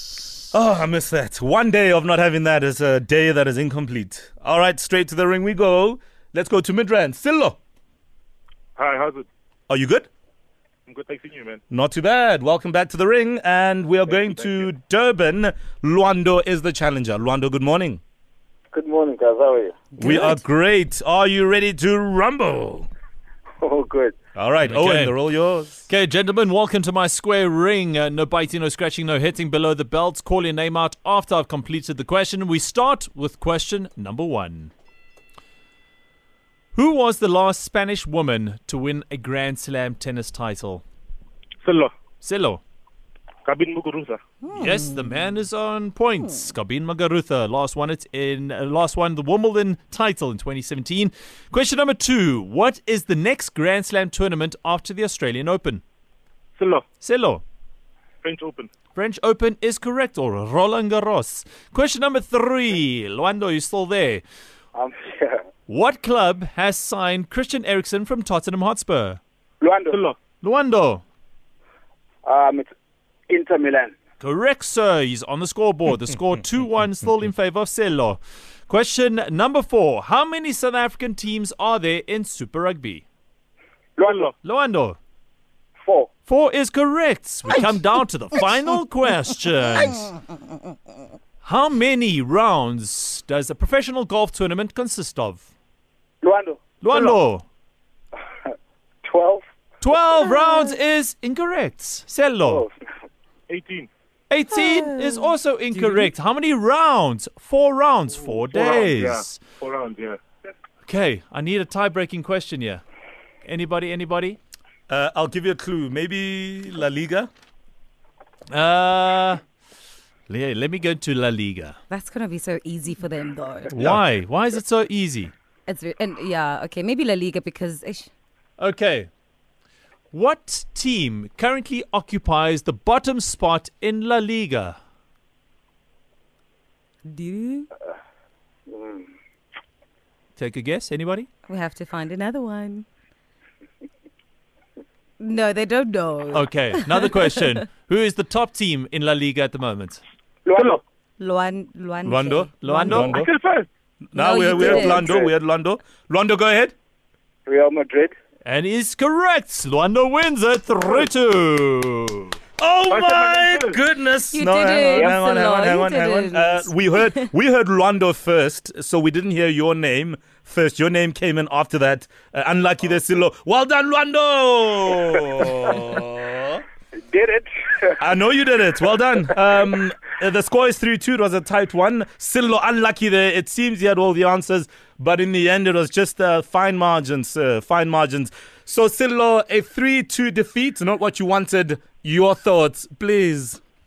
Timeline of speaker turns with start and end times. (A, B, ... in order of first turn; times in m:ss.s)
0:00.5-0:07.6 A
0:08.8-0:09.3 B
0:09.7-0:10.1 A
0:10.9-0:11.6 B
0:11.7-0:18.0 A
0:14.1-0:14.6 B
0:18.7-0:19.8 C
0:20.0-0:22.9 A
0:20.0-0:20.4 D
0:23.6-0:24.1 C
0:24.3-0:25.9 A
0:24.6-0:25.2 E
0:25.9-0:34.7 E
0:36.7-0:40.8 E
0:41.6-0:41.9 B
0:42.2-0:42.6 E
0:43.4-0:44.2 B
0:44.5-0:55.8 E
0:56.6-0:56.8 B
0:57.0-0:57.4 E
0:58.2-0:58.7 B
0:58.9-1:04.2 E
1:04.7-1:05.4 C
1:05.7-1:09.2 E
1:09.6-1:10.0 C
1:09.9-1:10.2 B
1:10.4-1:11.0 E
1:12.2-1:12.7 C
1:13.3-1:13.9 C
1:14.2-1:23.0 E
1:24.0-1:24.3 C
1:24.0-1:24.3 B
1:24.4-1:25.0 E
1:25.8-1:26.1 C
1:26.3-1:30.1 E
1:31.4-1:35.4 E
1:36.2-1:37.2 C
1:36.8-1:37.4 E
1:39.0-1:39.4 C
1:39.8-1:42.6 E
1:42.4-1:42.8 C
1:43.5-1:43.9 B
1:44.3-1:49.4 E
1:48.4-1:50.2 B
1:50.8-1:52.8 E
1:53.4-1:54.4 E
1:54.9-1:57.3 A
1:58.5-1:59.4 E
2:00.3-2:01.8 E
2:01.9-2:03.7 D
2:03.7-2:05.3 E
2:05.7-2:08.1 D
2:08.6-2:09.1 E
2:10.1-2:14.8 E
2:17.0-2:17.7 D
2:18.7-2:19.1 C
2:20.4-2:21.3 E
2:21.4-2:22.8 D
2:25.2-2:27.6 D
2:26.3-2:30.0 E
2:30.4-2:30.8 C
2:31.2-2:33.2 D
2:32.0-2:33.3 A
2:32.6-2:33.2 E
2:33.1-2:33.7 B
2:34.1-2:36.7 A
2:34.1-2:35.1 D
2:34.5-2:35.3 C
2:37.4-2:38.1 C
2:38.4-2:42.4 E
2:42.6-2:56.6 A
2:42.9-2:43.8 B
2:44.3-2:47.3 D
2:57.0-2:58.0 C
2:58.0-3:13.6 A